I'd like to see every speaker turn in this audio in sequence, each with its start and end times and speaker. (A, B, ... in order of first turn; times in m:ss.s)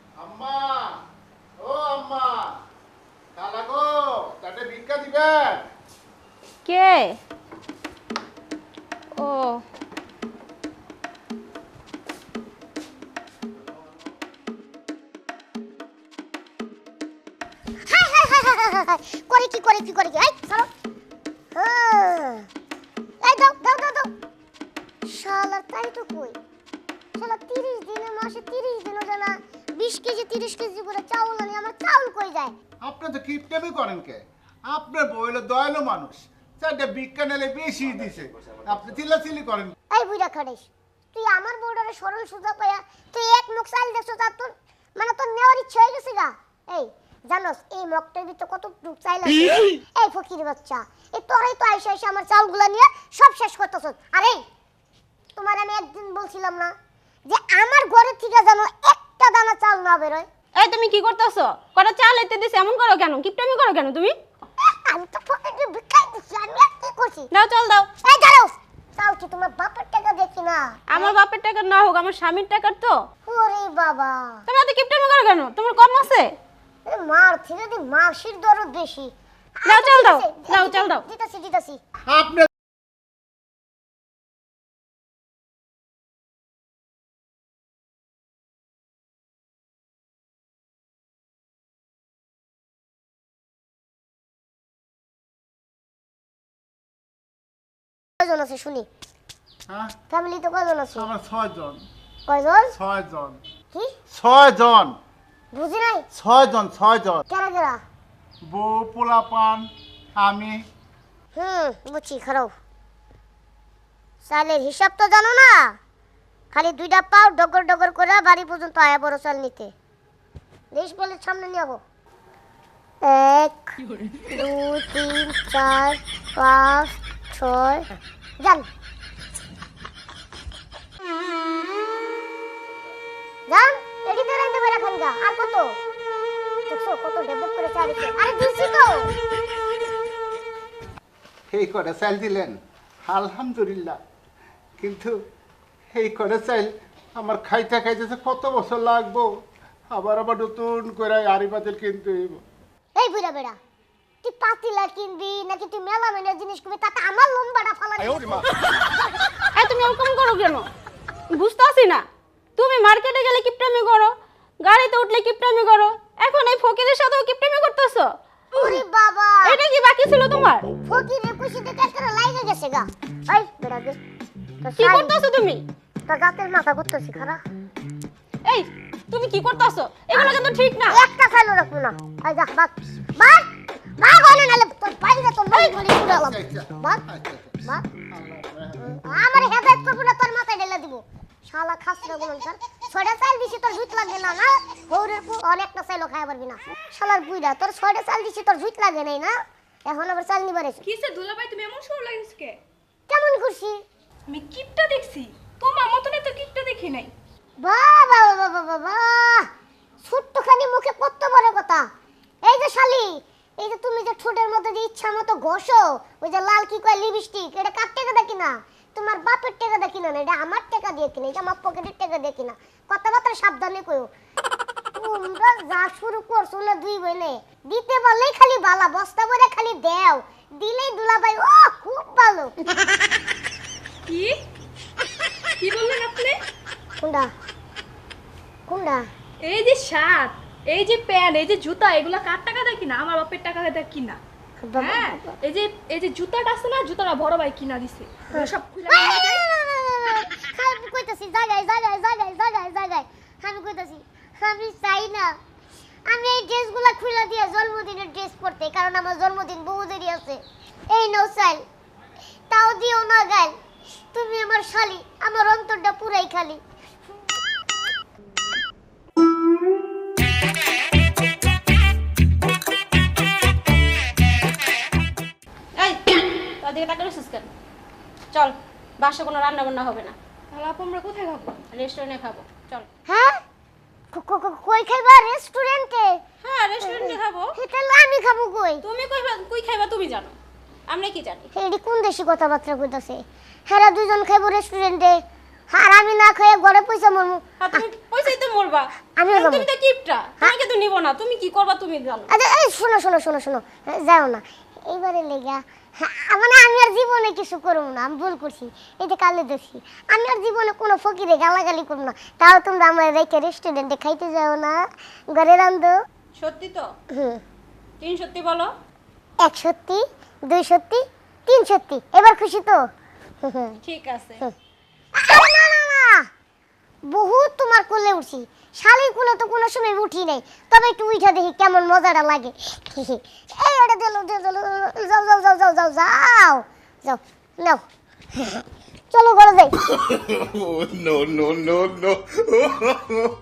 0:00.2-0:01.0 A
0:01.6-0:02.5 A
0:03.4-0:05.6 A
0:06.6-0:07.2 B
0:09.1-0:09.6 B
0:17.8-0:20.7 C
0:21.5-0:22.5 C
0:23.2-0:24.1 C
0:25.0-0:26.4 C
0:27.2-0:32.5 C
0:32.8-0:39.7 A
0:39.9-0:54.4 C
0:55.4-0:56.7 C
0:57.2-1:00.3 C
1:00.5-1:04.1 B
1:04.6-1:07.3 C
1:07.3-1:07.9 B
1:08.0-1:11.1 C
1:10.9-1:13.0 B
1:13.2-1:14.4 C
1:14.5-1:16.3 B
1:16.8-1:21.8 C
1:19.6-1:21.1 B
1:22.1-1:22.5 A
1:38.2-1:38.9 C
1:39.7-1:39.9 A
1:40.1-1:41.1 C
1:41.0-1:41.8 A
1:42.3-1:42.7 C
1:42.7-1:43.4 A
1:44.1-1:44.9 A
1:45.5-1:46.0 C
1:46.1-1:47.2 A
1:47.3-1:47.8 C
1:48.5-1:49.7 A
1:50.2-1:50.6 A
1:51.3-1:52.5 C
1:54.2-1:55.8 C
1:56.5-1:59.7 C
2:00.7-2:01.8 C
2:03.0-2:08.7 C
2:13.5-2:15.8 C
2:16.7-2:19.1 C
2:21.5-2:24.0 A
2:24.8-2:25.2 A
2:25.9-2:29.4 A
2:29.9-2:32.4 A
2:33.0-2:33.6 C
2:34.2-2:38.9 C
2:39.5-2:40.7 B
2:41.3-2:42.0 B
2:42.6-2:48.8 B
2:48.5-2:49.6 C
2:49.4-2:50.7 B
2:50.8-2:54.0 C
2:54.6-2:55.1 C
2:54.8-2:55.6 B
2:56.1-2:57.4 C
2:58.4-3:01.0 B
3:00.9-3:03.5 C
3:04.0-3:07.0 C
3:05.5-3:05.8 B
3:06.0-3:08.9 A
3:08.8-3:20.8 C
3:20.8-3:22.6 D
3:23.1-3:23.8 C
3:24.3-3:27.1 D
3:27.6-3:29.5 C
3:30.0-3:31.9 C
3:32.4-3:44.1 C
3:45.0-3:52.5 C
3:54.1-3:54.4 D
3:55.6-3:56.4 D
3:57.0-3:57.3 C
3:58.7-3:59.1 C
3:59.4-4:04.2 D
4:04.6-4:05.4 C
4:04.8-4:09.4 D
4:08.3-4:15.4 C
4:16.1-4:21.6 C
4:22.5-4:23.5 C
4:24.1-4:26.6 C
4:35.8-4:37.5 B
4:38.3-4:40.2 B
4:40.5-4:41.5 D
4:41.6-4:42.9 B
4:43.1-4:43.4 C
4:44.1-4:46.2 C
4:46.4-4:47.5 B
4:46.8-4:48.8 C
4:48.8-4:50.3 B
4:50.9-4:51.5 B
4:51.5-4:55.2 C
4:55.7-4:57.8 C
4:57.6-5:02.3 B
4:59.2-4:59.7 C
5:02.3-5:15.9 C
5:16.3-5:16.9 B
5:17.1-5:17.4 C
5:18.0-5:18.7 B
5:19.4-5:22.8 C
5:23.4-5:23.8 C
5:23.8-5:24.4 B
5:25.1-5:26.3 C
5:27.1-5:37.8 C
5:38.4-5:39.8 C
5:40.2-5:42.7 D